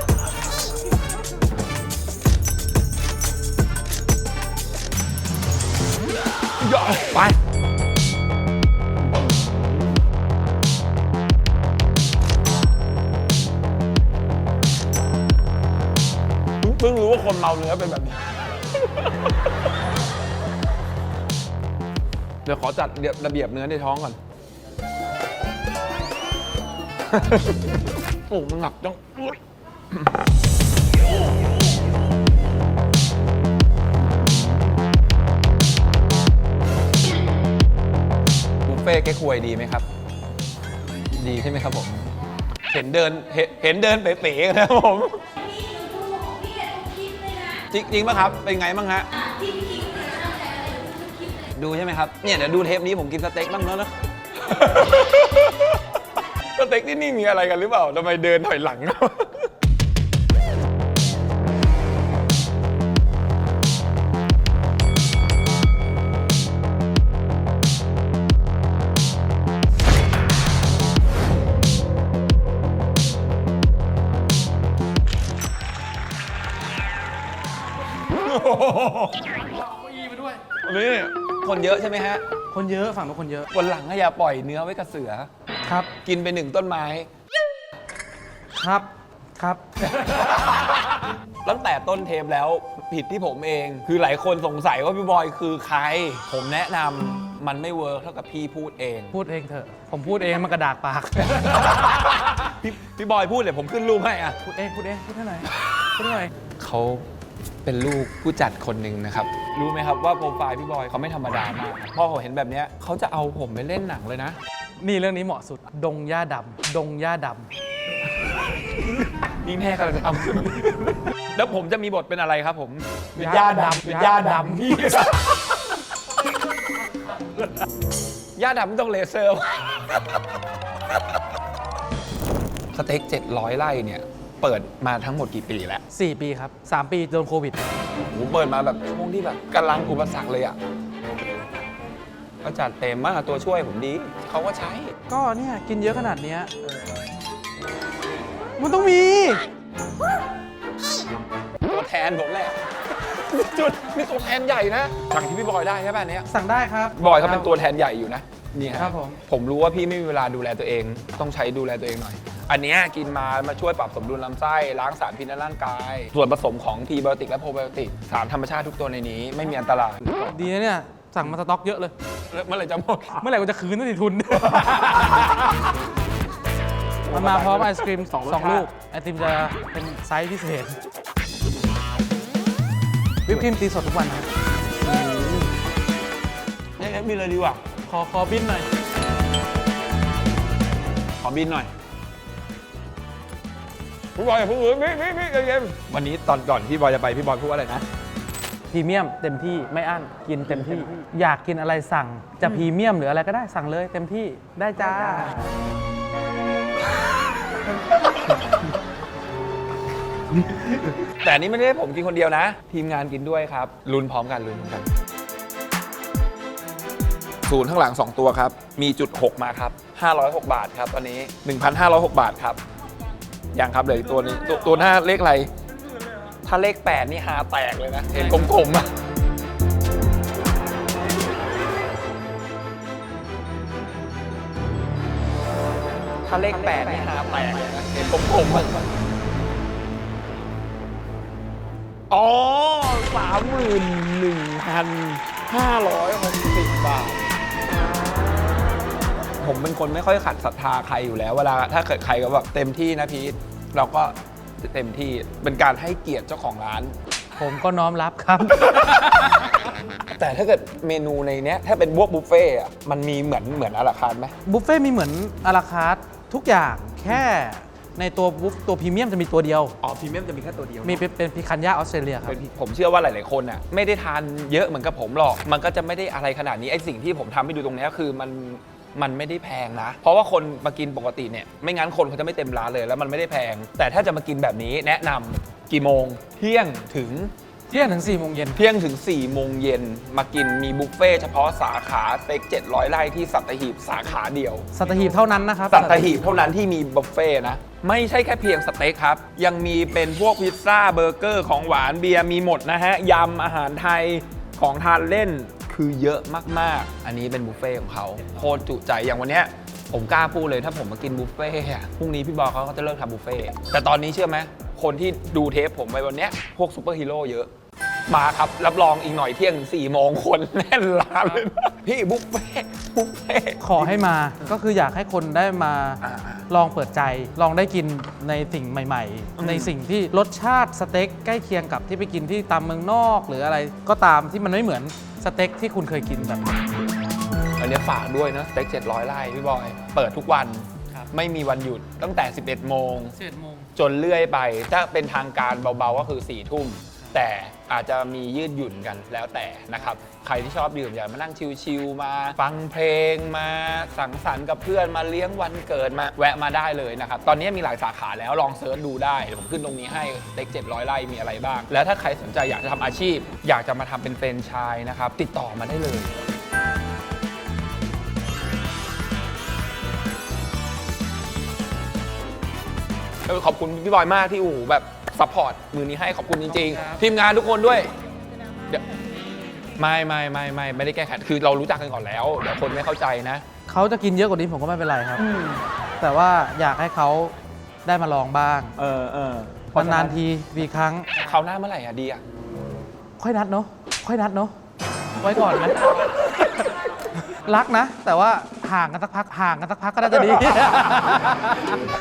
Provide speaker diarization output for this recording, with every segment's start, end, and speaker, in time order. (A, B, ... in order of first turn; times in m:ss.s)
0:06.6-0:07.4 A
0:16.6-0:19.3 A
0:22.4-0:24.2 A
0:27.1-0:30.1 A
0:34.0-0:34.8 A
0:38.6-0:39.9 A
0:41.1-0:42.1 A
0:42.7-0:45.2 A
0:47.7-0:49.1 A
0:51.5-0:56.0 A
0:56.6-0:59.5 A
1:18.0-1:19.4 A
1:19.4-1:20.4 B
1:20.6-1:22.2 A
1:22.5-1:23.5 B
1:23.5-1:25.3 A
1:26.0-1:27.1 A
1:28.6-1:28.9 B
1:29.8-1:39.2 A
1:39.1-1:41.8 B
1:41.2-1:44.4 A
1:44.4-1:46.3 B
1:46.6-1:47.1 A
1:47.6-1:54.4 A
1:54.8-1:57.5 B
1:58.6-2:05.8 A
2:03.2-2:04.8 B
2:08.4-2:10.2 A
2:12.7-2:15.8 A
2:15.9-2:17.6 B
2:18.1-2:20.6 A
2:22.4-2:25.0 A
2:25.1-2:26.5 B
2:28.6-2:29.4 B
2:31.6-2:36.3 A
2:36.3-2:37.5 B
2:37.0-2:50.5 A
2:38.7-2:39.2 B
2:50.3-2:51.9 B
2:52.3-2:53.4 A
2:53.2-2:55.3 B
2:54.3-2:55.7 A
2:57.0-2:58.7 A
2:57.1-3:00.8 B
3:03.3-3:04.3 B
3:04.8-3:05.5 A
3:06.8-3:07.6 A
3:07.9-3:08.7 B
3:11.2-3:11.7 A
3:14.2-3:17.8 A
3:18.7-3:25.4 B
3:20.5-3:20.8 A
3:24.8-3:25.4 A
3:30.4-3:34.9 A
3:37.5-3:42.6 A
3:43.5-3:45.5 A
3:46.4-3:48.9 A
3:56.3-3:58.9 A
3:56.5-3:57.7 B
4:02.1-4:07.2 A
4:09.4-4:17.0 A
4:17.4-4:19.1 B
4:18.6-4:24.4 A
4:24.5-4:29.8 B
4:29.8-4:31.0 A
4:30.8-4:32.4 B
4:32.3-4:47.3 A
4:47.7-4:48.6 B
4:48.6-4:54.7 A
4:54.7-4:56.1 B
4:55.7-5:17.5 A
5:18.1-5:24.0 A
5:23.6-5:36.5 B
5:26.0-5:26.5 A
5:29.4-5:29.8 A
5:37.6-5:43.1 A
5:43.1-5:43.7 B
5:43.8-6:06.1 A
6:13.2-6:17.9 A
6:16.5-6:17.0 B
6:19.8-6:23.4 A
6:23.7-6:25.3 B
6:25.2-6:25.6 A
6:26.0-6:27.3 B
6:27.9-6:28.8 B
6:28.8-6:30.2 A
6:29.7-6:31.2 B
6:31.2-6:32.2 A
6:33.2-6:34.5 B
6:35.2-6:35.9 B
6:37.2-6:41.8 B
6:40.2-6:40.5 A